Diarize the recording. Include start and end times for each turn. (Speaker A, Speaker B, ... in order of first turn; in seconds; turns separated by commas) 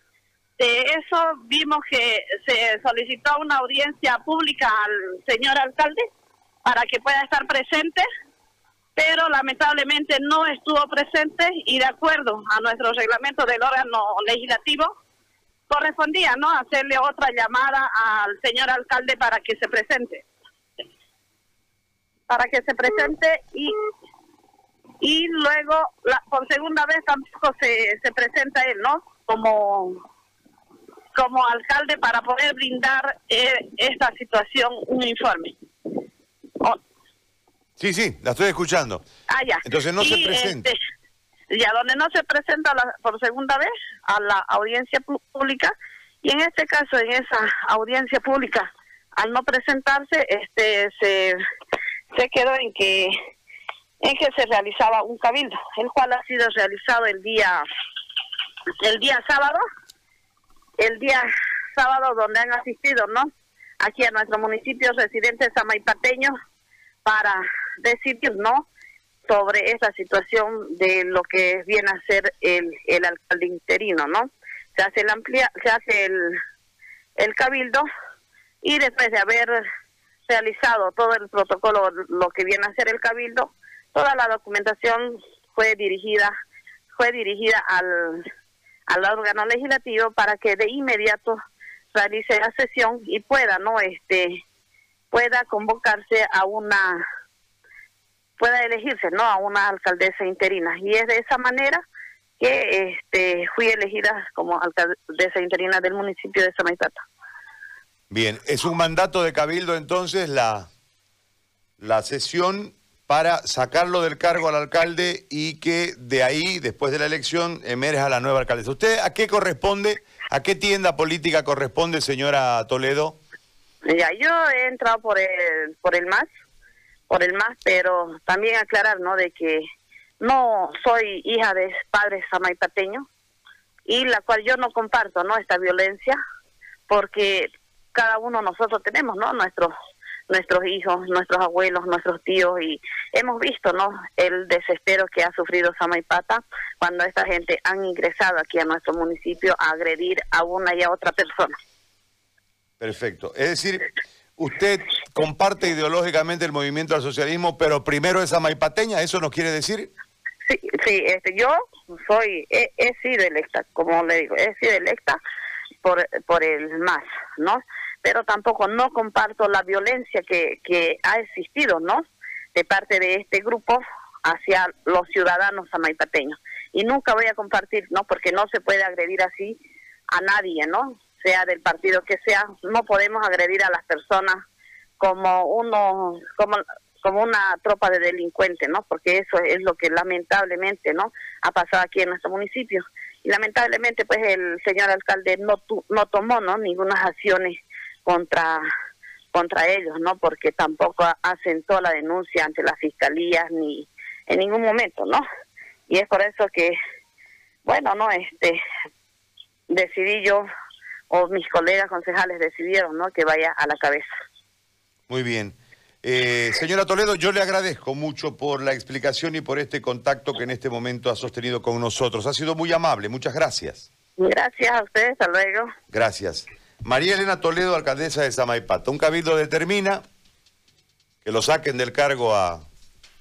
Speaker A: 0.6-6.1, Speaker A: 6.6-8.1, Speaker A: 8.9-14.9, Speaker A: 15.7-20.2, Speaker A: 22.3-23.7, Speaker A: 25.0-30.0, Speaker A: 31.1-35.5, Speaker B: 37.8-39.0, Speaker A: 39.3-40.8, Speaker B: 39.6-40.7, Speaker A: 41.5-51.4, Speaker A: 52.1-53.1, Speaker A: 54.0-57.6, Speaker A: 58.8-59.6, Speaker A: 60.8-63.3, Speaker A: 63.8-66.3, Speaker A: 67.0-68.7, Speaker A: 69.3-76.3, Speaker A: 77.2-77.8, Speaker A: 78.6-79.6, Speaker A: 80.3-86.3, Speaker A: 86.9-88.2, Speaker A: 88.9-91.4, Speaker A: 91.9-94.3, Speaker A: 95.1-97.0, Speaker A: 98.4-101.8, Speaker A: 102.4-107.0, Speaker B: 108.1-110.7, Speaker B: 111.8-123.2, Speaker A: 123.9-126.3, Speaker A: 127.1-129.6, Speaker A: 130.2-133.1, Speaker A: 133.8-136.2, Speaker A: 136.9-139.7, Speaker A: 140.3-151.5, Speaker B: 152.8-153.8, Speaker B: 154.4-159.9, Speaker A: 160.4-165.2, Speaker A: 165.8-179.6, Speaker A: 180.1-184.4, Speaker A: 185.0-198.6, Speaker A: 199.3-205.2, Speaker A: 205.9-206.7, Speaker A: 207.6-208.6, Speaker A: 209.7-210.4, Speaker A: 211.1-214.1, Speaker B: 215.1-223.9, Speaker A: 224.2-225.7, Speaker B: 225.9-230.0, Speaker B: 231.2-232.6